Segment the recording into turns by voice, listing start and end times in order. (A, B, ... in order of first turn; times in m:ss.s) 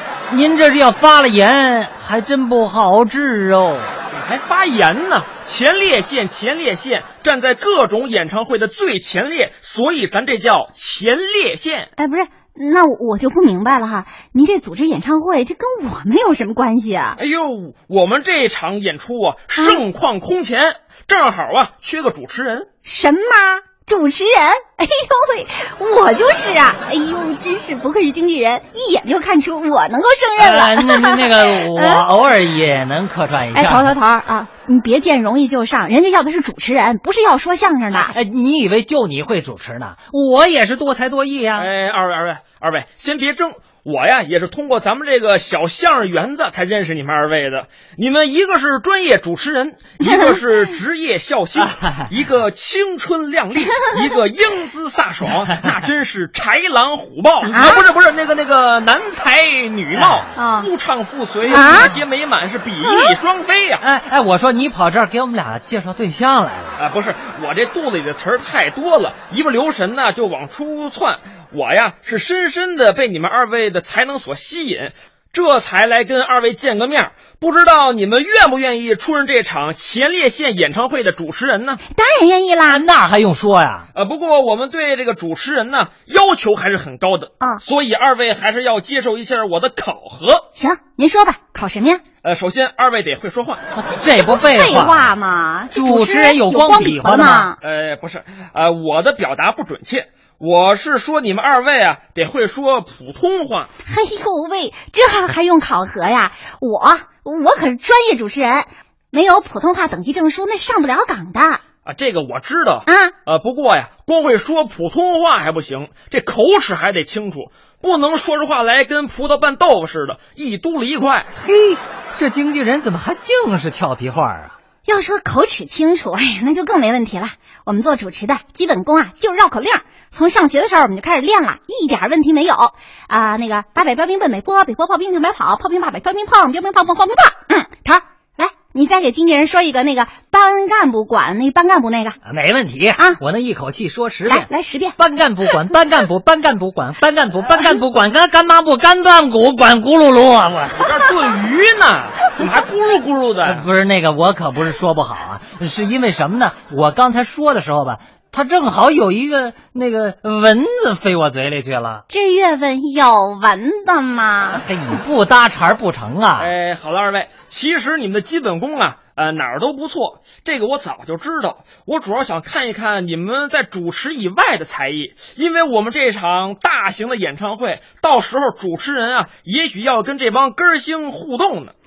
0:00.3-0:03.9 A
0:04.1-0:11.9 B
0:12.0-0:17.2 C
0:17.2-0:22.7 B
0:22.8-0:32.0 C
0:30.4-0:33.9 A
0:33.5-0:38.1 C
0:37.9-0:41.7 A
0:41.6-1:03.8 B
0:57.5-0:57.8 C
1:00.0-1:00.2 A
1:00.4-1:00.7 C
1:01.4-1:01.9 C
1:03.8-1:06.8 A
1:06.8-1:21.8 B
1:21.9-1:22.8 C
1:22.6-1:23.9 A
1:23.9-1:30.4 B
1:30.5-1:32.0 C
1:32.2-1:33.6 B
1:33.7-1:35.1 A
1:34.2-1:37.6 C
1:35.7-1:37.5 A
1:37.6-1:43.7 B
1:43.8-1:51.6 C
1:51.8-2:01.3 B
1:52.8-1:53.1 C
2:01.4-2:04.5 A
2:04.8-2:22.2 C
2:22.2-2:30.9 A
2:24.3-2:25.0 C
2:30.8-2:33.6 B
2:33.4-2:42.0 A
2:42.1-2:44.6 C
2:44.5-2:46.5 A
2:46.4-3:01.7 B